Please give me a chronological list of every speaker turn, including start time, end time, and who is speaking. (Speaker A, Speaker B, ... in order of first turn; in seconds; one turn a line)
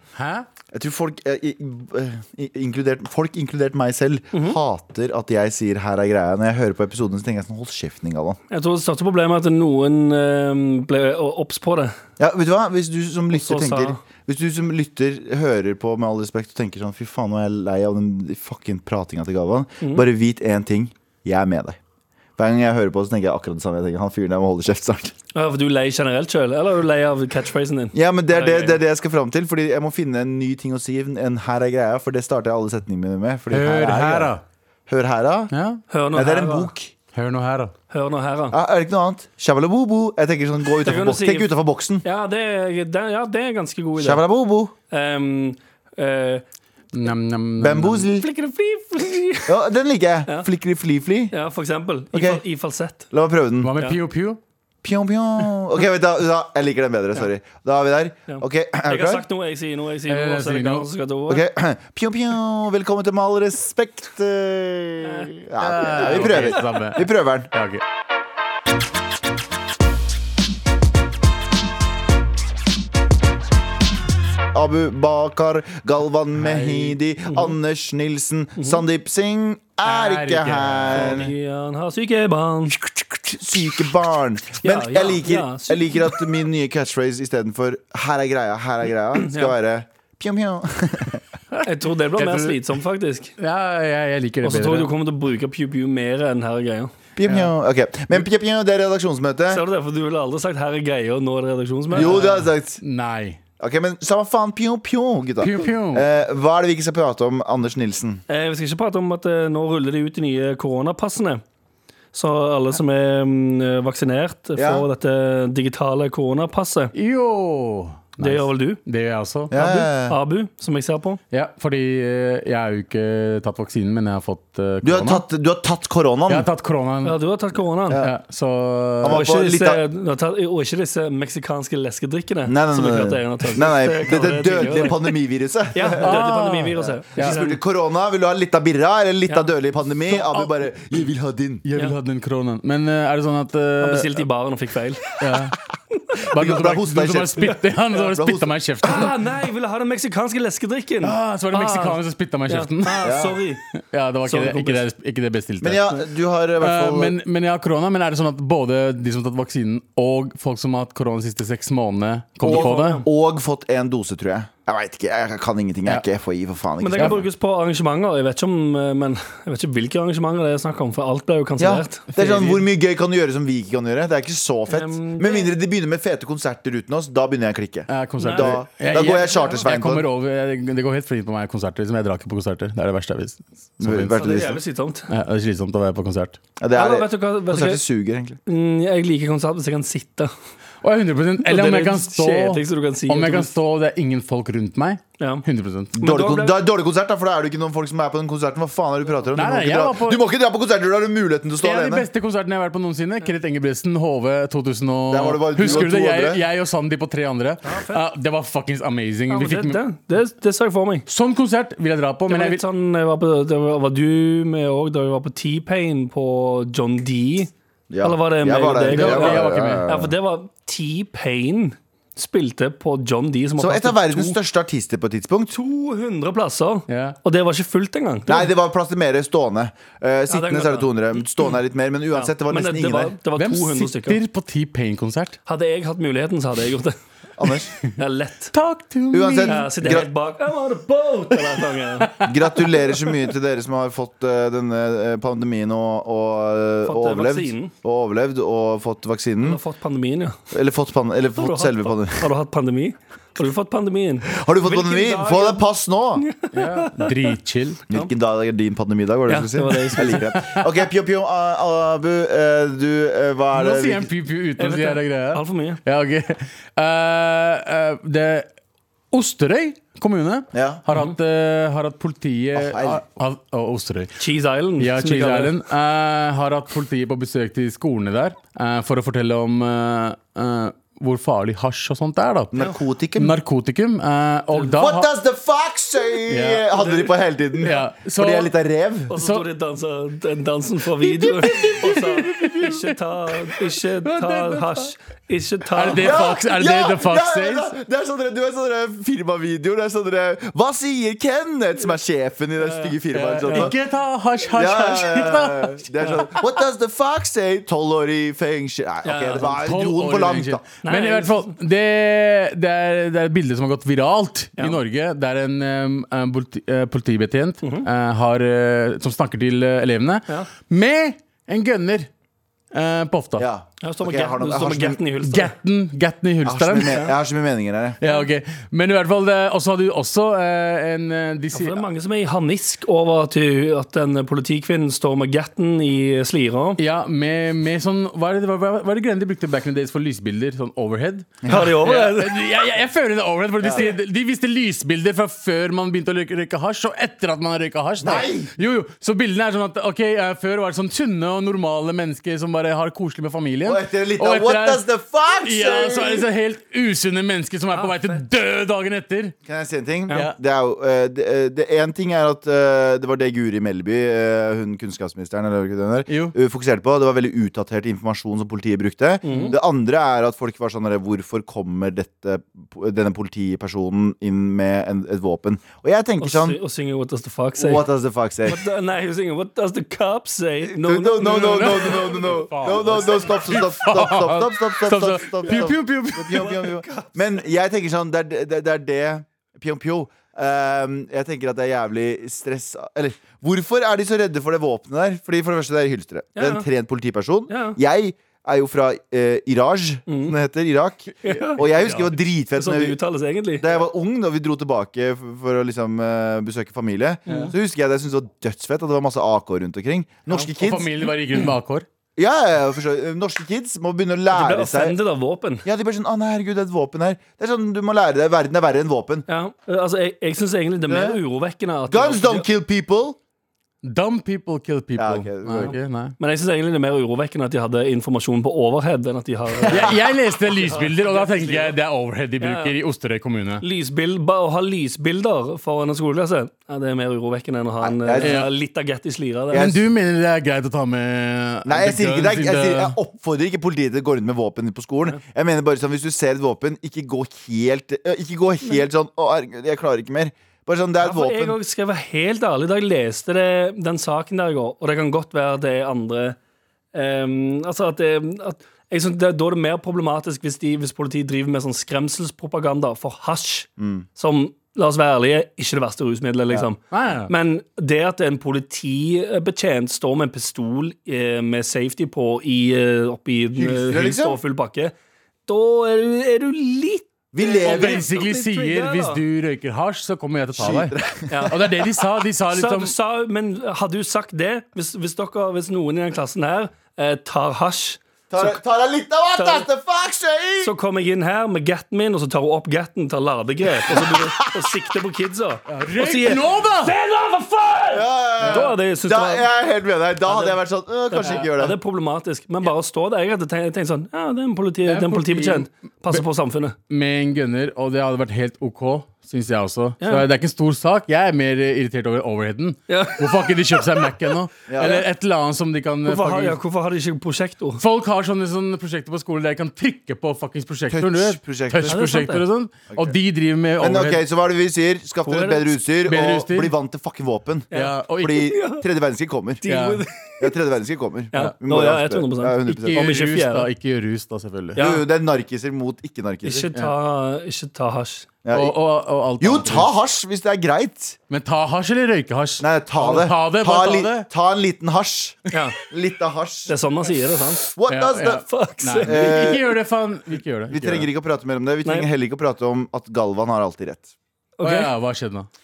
Speaker A: 0.1-0.5
Speaker B: 0.7-8.4
Speaker C: 4.3-4.6
Speaker C: 8.5-11.9
Speaker B: 12.2-21.8
Speaker C: 13.3-14.0
Speaker B: 22.4-25.1
Speaker C: 25.3-28.8
Speaker B: 27.9-34.3
Speaker A: 33.5-34.4
Speaker B: 34.9-35.5
Speaker A: 35.5-35.8
Speaker C: 35.9-36.7
Speaker B: 36.1-36.9
Speaker A: 37.1-37.7
Speaker C: 37.9-38.5
Speaker B: 38.5-42.0
Speaker C: 40.8-41.5
Speaker C: 42.0-44.2
Speaker B: 44.0-44.7
Speaker C: 44.9-46.4
Speaker A: 46.9-48.1
Speaker B: 47.6-48.3
Speaker C: 48.1-49.5
Speaker B: 49.5-51.3
Speaker C: 51.3-53.1
Speaker B: 52.1-52.4
Speaker B: 53.1-53.7
Speaker A: 53.6-54.4
Speaker B: 54.8-59.2
Speaker C: 58.3-61.4
Speaker A: 60.1-60.9
Speaker B: 61.3-67.5
Speaker C: 65.0-65.3
Speaker A: 65.6-67.8
Speaker C: 66.0-66.8
Speaker B: 74.5-81.3
Speaker A: 76.4-77.0
Speaker C: 77.2-77.5
Speaker A: 79.8-81.3
Speaker C: 80.9-82.8
Speaker B: 82.7-91.2
Speaker C: 84.6-86.2
Speaker C: 89.2-89.5
Speaker A: 91.5-92.7
Speaker C: 91.6-93.3
Speaker A: 93.4-94.9
Speaker C: 94.4-97.4
Speaker B: 97.2-99.6
Speaker C: 99.5-102.3
Speaker B: 101.9-102.8
Speaker A: 101.9-103.4
Speaker B: 103.6-108.2
Speaker A: 105.4-106.0
Speaker C: 108.3-111.4
Speaker C: 112.1-116.9
Speaker B: 114.5-114.8
Speaker A: 116.9-119.5
Speaker C: 118.2-118.8
Speaker B: 119.5-120.2
Speaker C: 119.5-121.2
Speaker A: 121.3-125.2
Speaker B: 124.8-126.5
Speaker A: 126.3-127.2
Speaker C: 127.0-128.0
Speaker A: 128.0-129.2
Speaker B: 129.0-129.8
Speaker C: 129.1-135.1
Speaker B: 132.4-136.1
Speaker C: 135.7-137.6
Speaker A: 136.0-137.4
Speaker B: 136.8-141.6
Speaker A: 140.1-140.7
Speaker A: 141.6-144.2
Speaker C: 143.8-145.2
Speaker A: 145.2-145.6
Speaker A: 146.3-149.2
Speaker B: 146.3-148.5
Speaker C: 148.8-153.6
Speaker A: 151.0-153.1
Speaker B: 153.0-153.4
Speaker A: 153.7-155.9
Speaker C: 154.2-154.8
Speaker B: 155.6-157.1
Speaker A: 156.6-163.0
Speaker B: 162.4-167.2
Speaker C: 162.4-163.1
Speaker C: 166.8-172.6
Speaker B: 171.6-180.1
Speaker C: 174.7-175.5
Speaker A: 177.9-184.1
Speaker C: 178.2-178.5
Speaker C: 179.2-179.7
Speaker B: 183.8-184.6
Speaker C: 183.9-185.1
Speaker A: 185.1-186.4
Speaker B: 186.6-188.4
Speaker C: 186.7-187.8
Speaker C: 188.4-190.3
Speaker A: 190.8-195.9
Speaker C: 191.4-193.5
Speaker C: 195.2-195.4
Speaker B: 195.9-202.1
Speaker C: 196.0-196.6
Speaker A: 199.3-200.2
Speaker A: 201.6-209.8
Speaker B: 205.1-206.4
Speaker C: 207.6-208.0
Speaker C: 209.3-211.1
Speaker A: 211.1-212.6
Speaker C: 212.3-224.3
Speaker B: 217.9-220.1
Speaker A: 218.9-219.8
Speaker B: 223.6-225.5
Speaker C: 225.5-228.5
Speaker A: 226.9-227.2
Speaker B: 228.3-233.1
Speaker C: 230.3-230.9
Speaker C: 232.1-234.2
Speaker A: 233.3-235.4
Speaker C: 235.4-236.9
Speaker B: 237.4-237.7
Speaker C: 237.9-238.5
Speaker A: 238.5-239.7
Speaker B: 239.1-240.1
Speaker C: 239.4-242.2
Speaker A: 242.0-243.1
Speaker B: 242.2-249.6
Speaker C: 246.8-247.7
Speaker C: 249.4-250.4
Speaker B: 250.5-252.2
Speaker C: 251.4-255.6
Speaker B: 254.3-256.2
Speaker C: 256.2-257.3
Speaker A: 256.5-257.8
Speaker B: 257.9-264.1
Speaker C: 259.3-260.2
Speaker A: 260.0-260.6
Speaker A: 263.5-268.5
Speaker C: 264.6-265.8
Speaker A: 269.1-274.1
Speaker B: 270.5-270.8
Speaker B: 272.5-273.0
Speaker C: 274.2-275.5
Speaker A: 274.8-282.5
Speaker B: 282.5-283.4
Speaker A: 283.1-285.1
Speaker B: 284.8-289.1
Speaker A: 286.3-286.7
Speaker C: 286.7-287.1
Speaker A: 287.6-288.5
Speaker C: 289.1-296.2
Speaker A: 289.1-289.4
Speaker A: 291.2-292.8
Speaker B: 291.4-292.6
Speaker A: 293.5-294.9
Speaker A: 295.7-297.7
Speaker B: 296.0-303.7
Speaker C: 302.6-302.9
Speaker A: 303.1-305.8
Speaker B: 304.5-310.6
Speaker C: 309.0-309.5
Speaker A: 309.6-322.1
Speaker C: 310.8-311.5
Speaker C: 317.6-317.9
Speaker A: 322.7-323.4
Speaker B: 323.4-325.0
Speaker C: 323.8-325.5
Speaker A: 325.2-327.0
Speaker B: 326.4-328.0
Speaker A: 328.0-331.8
Speaker C: 331.5-336.8
Speaker A: 336.8-354.8
Speaker C: 341.4-342.4
Speaker B: 343.6-343.9
Speaker B: 348.0-348.5
Speaker B: 353.6-356.2
Speaker A: 355.4-359.3
Speaker C: 357.7-358.2
Speaker B: 359.4-376.6
Speaker A: 360.1-360.3
Speaker A: 366.1-366.3
Speaker C: 369.2-369.6
Speaker C: 376.2-377.9
Speaker B: 377.6-378.6
Speaker C: 378.4-382.4
Speaker B: 380.6-402.9
Speaker A: 381.4-386.6
Speaker C: 385.4-385.7
Speaker C: 386.3-387.4
Speaker C: 396.4-396.6
Speaker C: 397.5-397.8
Speaker C: 400.1-400.3
Speaker C: 401.2-401.6
Speaker A: 401.3-402.1
Speaker C: 402.6-403.8
Speaker B: 403.6-410.9
Speaker C: 407.3-407.5
Speaker A: 410.5-411.8
Speaker B: 412.1-415.0
Speaker C: 414.3-415.7
Speaker B: 415.6-419.2
Speaker C: 419.3-422.4
Speaker B: 420.9-421.2
Speaker B: 421.9-423.2
Speaker A: 423.8-426.1
Speaker B: 424.9-425.8
Speaker C: 425.6-429.9
Speaker B: 429.6-430.0
Speaker A: 429.7-433.6
Speaker C: 430.5-431.7
Speaker C: 432.4-432.8
Speaker C: 433.6-439.7
Speaker B: 437.8-438.4
Speaker A: 438.2-438.5
Speaker A: 439.5-442.9
Speaker B: 439.5-439.8
Speaker B: 441.6-451.6
Speaker C: 451.0-456.4
Speaker C: 456.9-474.9
Speaker B: 463.8-464.1
Speaker A: 466.9-467.3
Speaker B: 473.6-474.4
Speaker C: 475.5-479.2
Speaker B: 477.3-478.0
Speaker A: 477.6-482.9
Speaker B: 480.6-481.7
Speaker C: 481.3-481.6
Speaker C: 482.5-488.6
Speaker B: 488.3-490.7
Speaker C: 489.3-489.7
Speaker C: 490.6-499.5
Speaker B: 493.9-494.8
Speaker A: 495.7-496.9
Speaker B: 497.9-501.8
Speaker A: 498.4-498.7
Speaker C: 500.2-500.6
Speaker C: 501.1-506.8
Speaker A: 504.9-506.2
Speaker A: 506.9-516.6
Speaker C: 512.9-514.3
Speaker B: 514.7-515.0
Speaker C: 514.8-515.0
Speaker C: 516.0-517.8
Speaker A: 517.8-524.2
Speaker B: 520.9-522.0
Speaker C: 521.8-522.4
Speaker B: 523.8-529.6
Speaker C: 525.2-525.7
Speaker A: 526.0-526.7
Speaker A: 527.7-528.5
Speaker C: 527.7-528.8
Speaker C: 529.6-530.5
Speaker A: 529.7-530.0
Speaker B: 530.4-533.1
Speaker C: 531.3-533.7
Speaker A: 532.7-534.8
Speaker C: 534.7-535.0
Speaker B: 534.8-536.7
Speaker C: 536.4-538.3
Speaker B: 538.4-538.8
Speaker A: 538.5-539.9
Speaker B: 539.4-541.2
Speaker A: 541.3-544.3
Speaker B: 542.6-546.7
Speaker C: 545.5-545.8
Speaker C: 546.7-547.7
Speaker B: 547.7-548.4
Speaker A: 547.9-551.1
Speaker C: 548.5-549.6
Speaker B: 549.0-549.6
Speaker B: 550.7-554.1
Speaker C: 551.8-552.1
Speaker C: 554.6-554.9
Speaker A: 554.6-555.5